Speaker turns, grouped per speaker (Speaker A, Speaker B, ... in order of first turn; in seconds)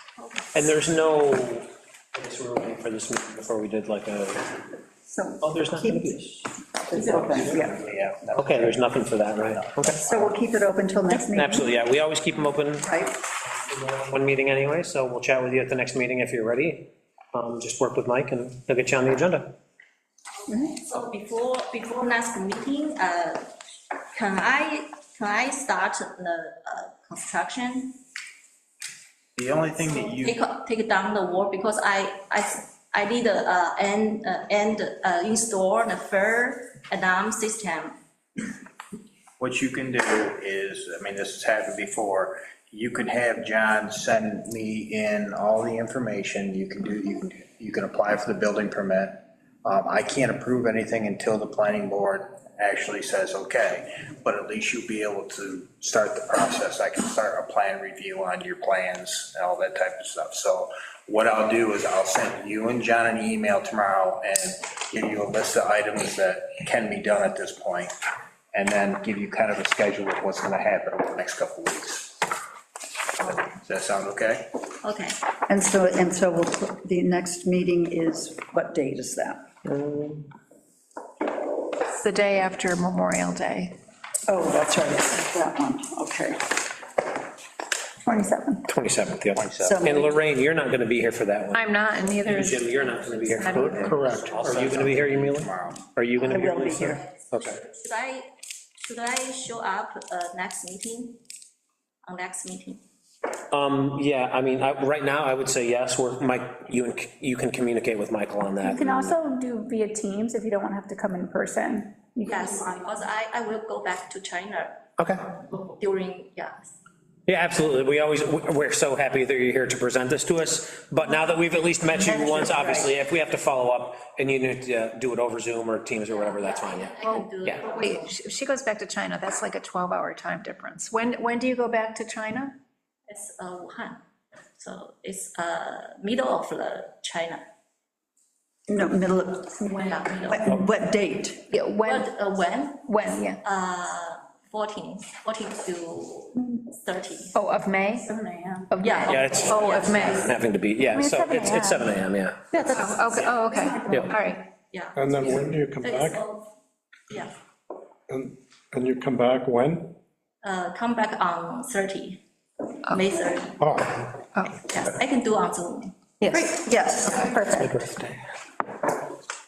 Speaker A: 0.2-0.6, 20.5-23.5, 24.1-28.0, 30.1-38.0, 74.8-75.2, 92.9-93.5, 96.2-101.2, 102.0-102.8, 112.3-114.9, 115.5-116.7, 126.1-128.1, 133.1-134.0, 134.6-137.4, 139.8-140.5, 141.8-147.4, 148.8-150.3, 154.7-156.5, 160.4-162.2, 162.9-163.6, 164.7-166.0, 167.0-167.4
Speaker B: 0.5-4.6, 5.4-7.7, 8.4-10.0, 11.1-12.9, 13.6-19.6, 79.7-80.2, 88.7-97.6, 103.5-109.2, 115.0-115.3, 117.3-127.6, 149.1-152.4, 153.9-154.1
Speaker C: 5.1-6.3, 6.9-7.7, 10.0-11.7, 12.8-13.2, 75.5-79.5, 84.3-86.5, 89.6-90.1, 96.3-97.0, 122.1-122.9, 138.7-141.5, 166.3-167.2
Speaker D: 7.2-8.9, 9.4-10.3, 29.4-30.4, 39.4-68.0, 68.5-72.2, 73.2-74.5, 89.3-90.1, 93.5-95.8
Speaker E: 81.9-83.7, 91.5-94.1, 127.0-132.6, 141.5-142.0, 147.4-148.1, 148.7-150.2, 152.5-154.5, 164.3-164.6, 166.2-166.5
Speaker F: 88.1-88.6, 108.7-112.4, 151.0-151.9, 167.3-167.6
Speaker G: 155.0-156.2, 158.1-159.9, 163.6-164.1, 167.6-168.1